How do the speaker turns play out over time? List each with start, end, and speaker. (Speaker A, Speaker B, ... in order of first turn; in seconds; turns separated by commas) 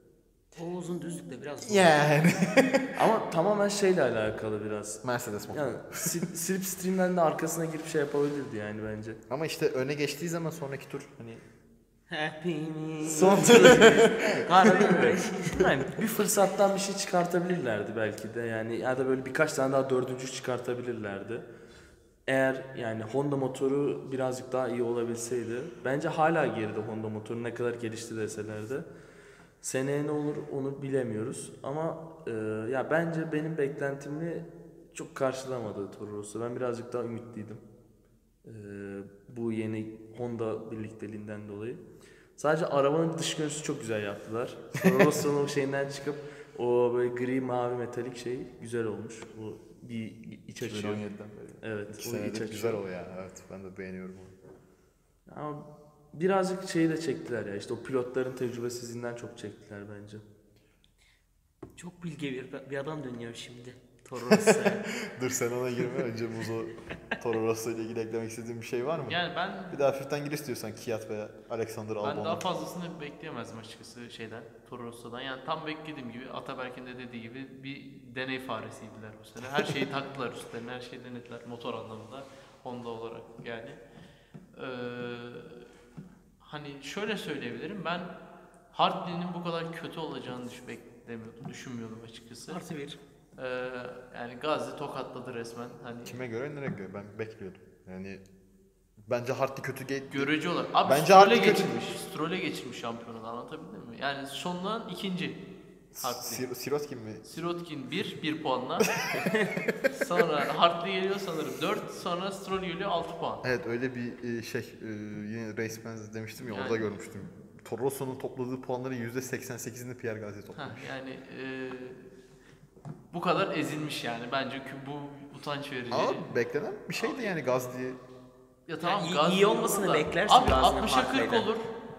Speaker A: 0.6-2.0, Speaker B: 1.6-2.9, Speaker C: 3.0-9.2, Speaker B: 5.0-6.2, Speaker B: 9.3-11.4, Speaker A: 12.1-15.9, Speaker B: 13.1-15.2, Speaker C: 13.1-14.1, Speaker C: 14.6-21.5, Speaker C: 22.3-28.9, Speaker C: 29.6-37.6, Speaker C: 38.4-41.8, Speaker C: 42.4-51.0, Speaker B: 50.6-54.4, Speaker C: 51.6-52.8, Speaker C: 55.3-60.2, Speaker A: 61.8-64.9, Speaker B: 64.2-72.5, Speaker D: 69.0-69.8, Speaker D: 72.0-83.8, Speaker D: 84.5-85.7, Speaker D: 86.4-88.1, Speaker D: 88.7-92.6, Speaker A: 92.5-93.0, Speaker D: 93.4-96.2, Speaker B: 96.0-98.2, Speaker B: 99.1-100.3, Speaker D: 100.1-105.4, Speaker B: 100.8-101.7, Speaker B: 105.9-107.2, Speaker D: 106.0-106.4, Speaker D: 107.2-109.0, Speaker B: 109.0-109.7, Speaker D: 109.9-113.4, Speaker B: 113.4-120.9, Speaker D: 116.4-116.9, Speaker D: 120.5-122.1, Speaker D: 123.1-126.2, Speaker B: 125.9-128.0, Speaker D: 128.7-131.7, Speaker A: 128.8-131.5